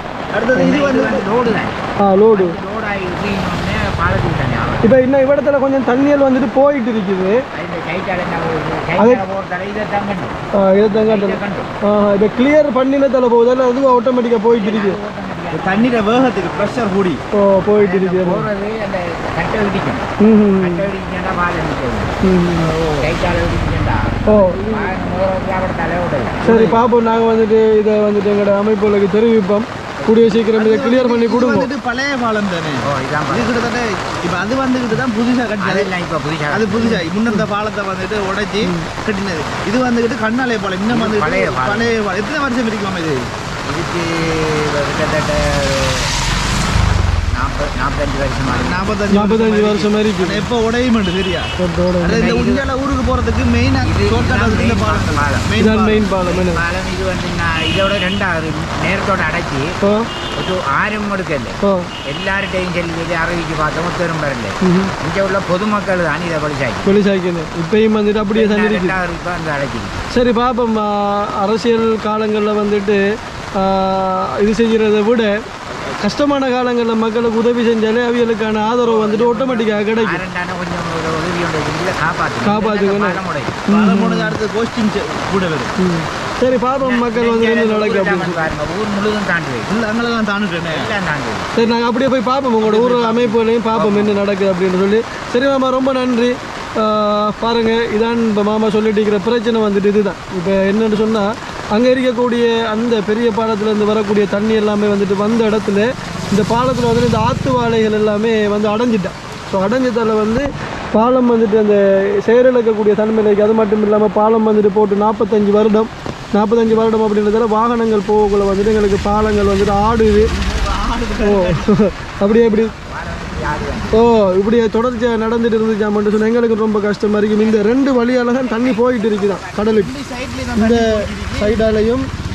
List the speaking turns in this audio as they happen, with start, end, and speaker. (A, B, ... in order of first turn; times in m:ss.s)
0:00.3-0:01.6 A
0:00.5-0:04.9 B
0:02.0-0:02.6 C
0:04.8-0:07.4 C
0:07.5-0:10.4 B
0:09.0-0:09.2 C
0:10.5-0:15.0 C
0:11.0-0:11.7 B
0:14.5-0:16.8 B
0:15.5-0:17.2 A
0:17.3-0:18.5 C
0:17.8-0:26.8 B
0:20.2-0:20.9 C
0:22.2-0:22.7 C
0:24.3-0:24.8 C
0:26.4-0:31.7 C
0:30.0-0:30.3 B
0:30.5-0:35.9 A
0:32.8-0:33.5 B
0:35.6-0:37.0 B
0:36.5-0:43.3 A
0:40.9-0:41.9 B
0:43.7-0:46.1 B
0:47.3-0:48.8 B
0:48.5-0:51.5 A
0:49.1-0:50.4 C
0:51.6-0:52.3 C
0:52.0-0:56.1 A
0:52.1-0:52.6 B
0:53.8-0:55.5 B
0:55.6-0:56.6 C
0:56.2-0:59.8 B
1:00.4-1:06.9 B
1:01.6-1:01.9 C
1:04.6-1:04.9 C
1:06.8-1:09.0 C
1:08.3-1:10.0 B
1:10.1-1:13.0 C
1:13.6-1:15.4 C
1:16.0-1:20.2 C
1:18.8-1:19.6 A
1:19.3-1:23.7 B
1:22.4-1:24.3 C
1:23.7-1:25.7 A
1:25.8-1:28.4 C
1:26.8-1:29.7 B
1:29.7-1:30.9 A
1:30.7-1:31.5 B
1:31.6-2:00.3 C
1:32.6-1:34.2 A
2:00.2-2:01.7 A
2:01.2-2:02.7 C
2:02.3-2:04.0 B
2:03.9-2:09.9 C
2:07.3-2:09.8 B
2:09.7-2:11.6 A
2:10.6-2:12.1 C